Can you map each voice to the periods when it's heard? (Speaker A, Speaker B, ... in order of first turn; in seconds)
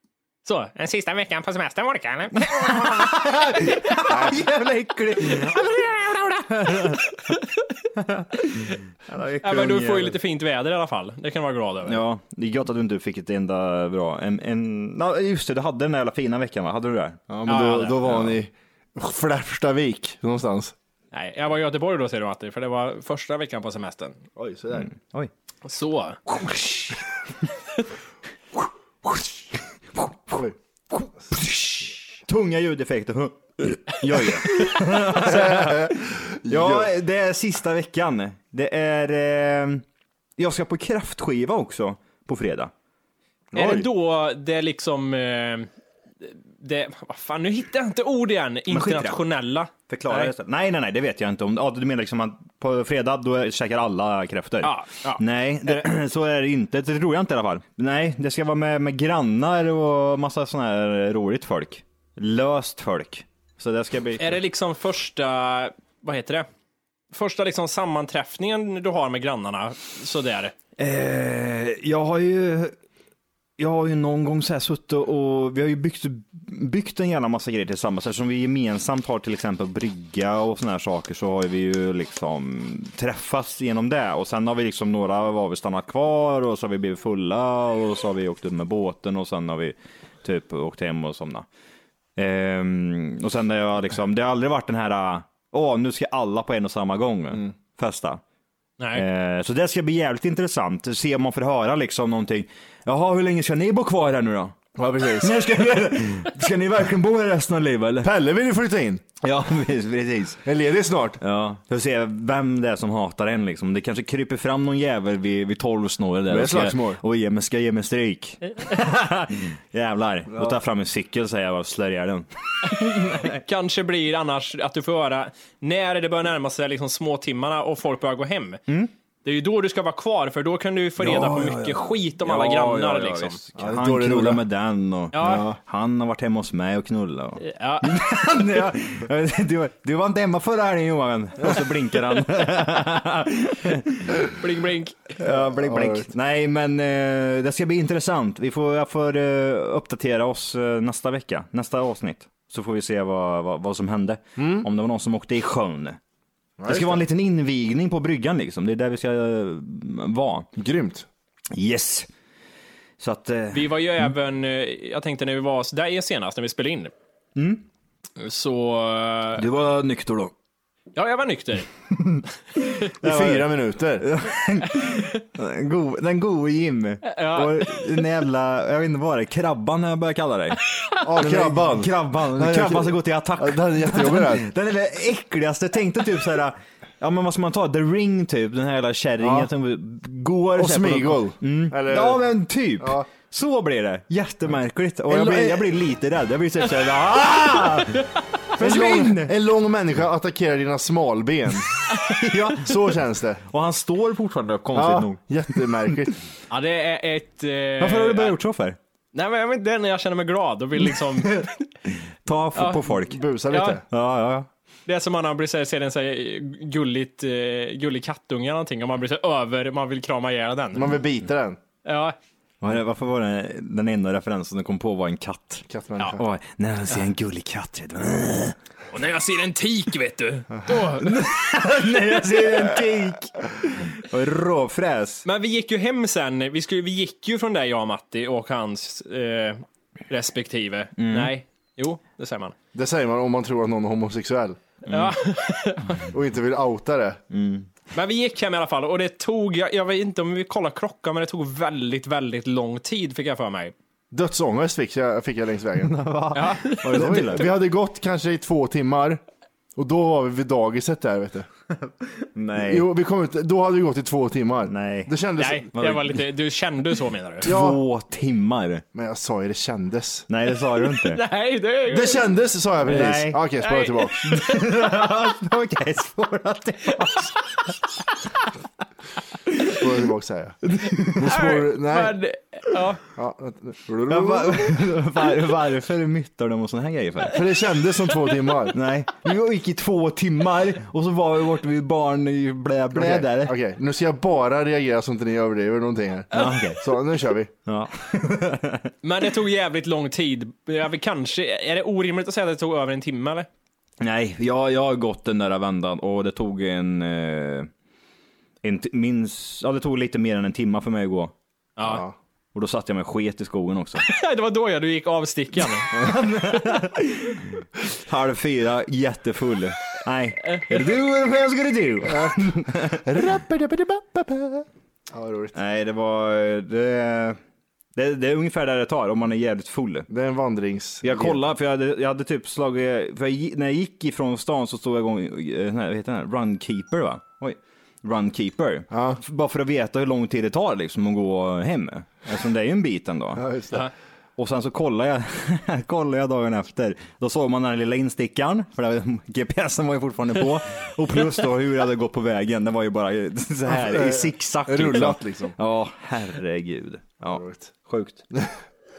Speaker A: 0.5-2.9, 9.4-12.0, 17.5-18.1, 21.1-24.2, 25.6-26.2, 43.5-45.7, 46.2-50.3, 54.6-55.9, 64.2-66.5, 67.1-70.5, 98.8-99.0, 122.7-128.6, 129.2-133.4, 135.1-135.4, 137.4-137.9, 144.3-145.1, 163.5-166.9, 168.2-169.4, 170.9-171.7, 177.0-178.0, 206.5-208.4, 209.1-211.5, 212.6-212.8, 213.5-213.8, 214.9-220.9, 221.8-222.2, 228.9-231.2, 235.2-242.6, 244.9-246.1, 247.9-253.7, 256.3-257.4, 265.4-267.5, 270.8-272.3, 273.6-274.5, 276.9-277.3, 281.2-283.0, 299.0-303.5, 311.8-312.1, 314.0-315.9
Speaker B: 2.4-7.2, 8.0-10.2, 11.8-17.2, 18.1-18.3, 24.8-25.3, 26.3-26.9, 31.3-39.8, 40.4-42.7, 48.7-49.2, 49.9-64.4, 70.8-72.8, 73.6-91.5, 92.2-98.2, 98.9-104.6, 105.2-108.1, 109.2-110.4, 111.2-123.4, 131.0-144.2, 145.2-156.0, 156.7-160.5, 161.5-162.1, 163.0-164.1, 167.4-167.7, 169.4-170.3, 172.9-180.6, 181.2-199.3, 202.0-206.0, 207.8-208.8, 211.2-213.2, 213.8-214.5, 222.6-228.6, 231.0-235.2, 241.0-241.3, 244.9-245.2, 247.3-247.7, 255.8-257.5, 261.8-262.9, 264.7-265.1, 265.8-266.2, 267.4-268.8, 270.3-271.2, 272.8-273.4, 274.2-277.4, 280.8-281.2, 284.1-287.5, 288.7-293.6, 296.3-296.9, 297.7-298.9, 304.0-307.7, 308.6-311.3, 312.5-314.1, 315.9-323.0, 325.5-327.4, 328.0-330.1, 331.0-343.4, 344.4-358.2
Speaker C: 17.3-20.7, 24.4-24.9, 30.3-30.6, 35.0-36.9, 43.5-43.9, 104.8-105.3, 108.0-109.0, 110.5-111.2, 116.3-117.0, 133.6-134.4, 135.2-135.6, 145.2-146.1, 154.4-154.7, 156.6-157.1, 160.6-161.1, 173.0-174.1, 181.0-184.5, 189.2-189.5, 190.6-192.3, 192.8-193.1, 195.1-195.8, 198.6-201.8, 202.6-203.4, 204.7-206.2, 212.9-213.8, 220.7-221.6, 225.7-226.2, 242.7-244.6, 246.1-247.2, 254.1-255.9, 256.9-259.2, 259.8-261.5, 262.6-265.7, 267.4-267.8, 268.9-270.3, 271.9-274.3, 279.7-282.2, 283.1-284.9, 287.3-288.8, 292.9-297.5, 311.8-312.1, 322.1-325.6, 330.1-331.4, 338.9-339.2, 343.4-343.8, 353.7-355.6, 357.3-357.7